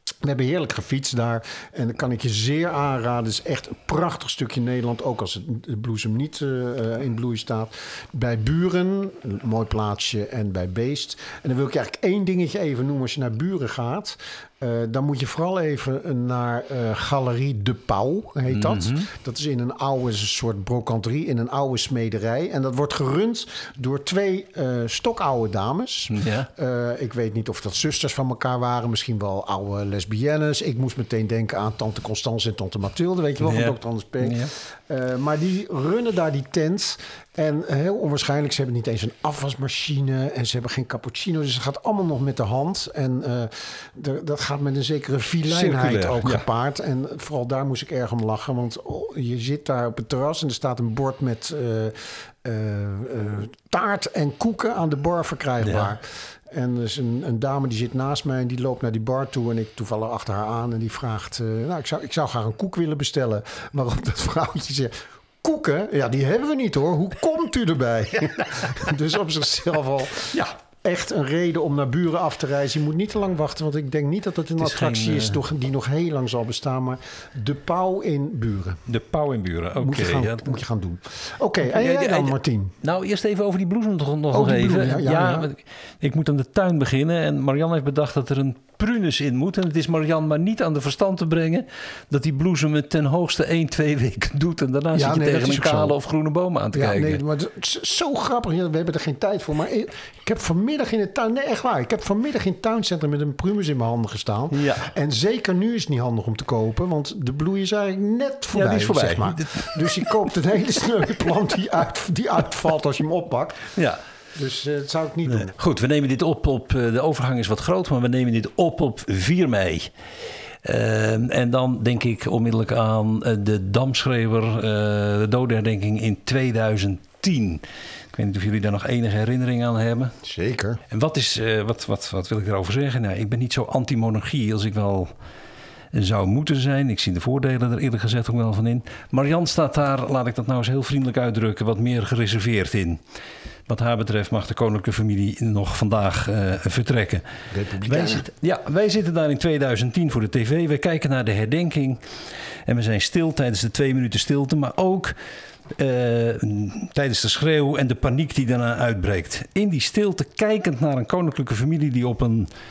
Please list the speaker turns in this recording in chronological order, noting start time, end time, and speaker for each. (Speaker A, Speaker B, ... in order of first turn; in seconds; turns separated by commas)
Speaker A: 0.2-78.8, Speaker B: 18.5-19.1, Speaker B: 26.1-26.5, Speaker B: 33.4-34.5, Speaker B: 45.5-46.4, Speaker B: 55.6-56.0, Speaker B: 74.6-75.4, Speaker B: 78.9-80.6, Speaker A: 79.8-82.8, Speaker B: 81.7-97.2, Speaker A: 84.3-85.5, Speaker A: 94.9-96.0, Speaker A: 96.7-113.7, Speaker B: 104.5-104.9, Speaker B: 108.5-110.1, Speaker A: 114.3-115.5, Speaker B: 115.3-119.9, Speaker B: 120.6-130.1, Speaker A: 130.2-130.8, Speaker B: 130.9-135.1, Speaker B: 135.9-143.0, Speaker B: 143.7-147.2, Speaker A: 147.5-148.3, Speaker B: 147.8-152.0, Speaker B: 152.7-155.2, Speaker B: 155.8-162.5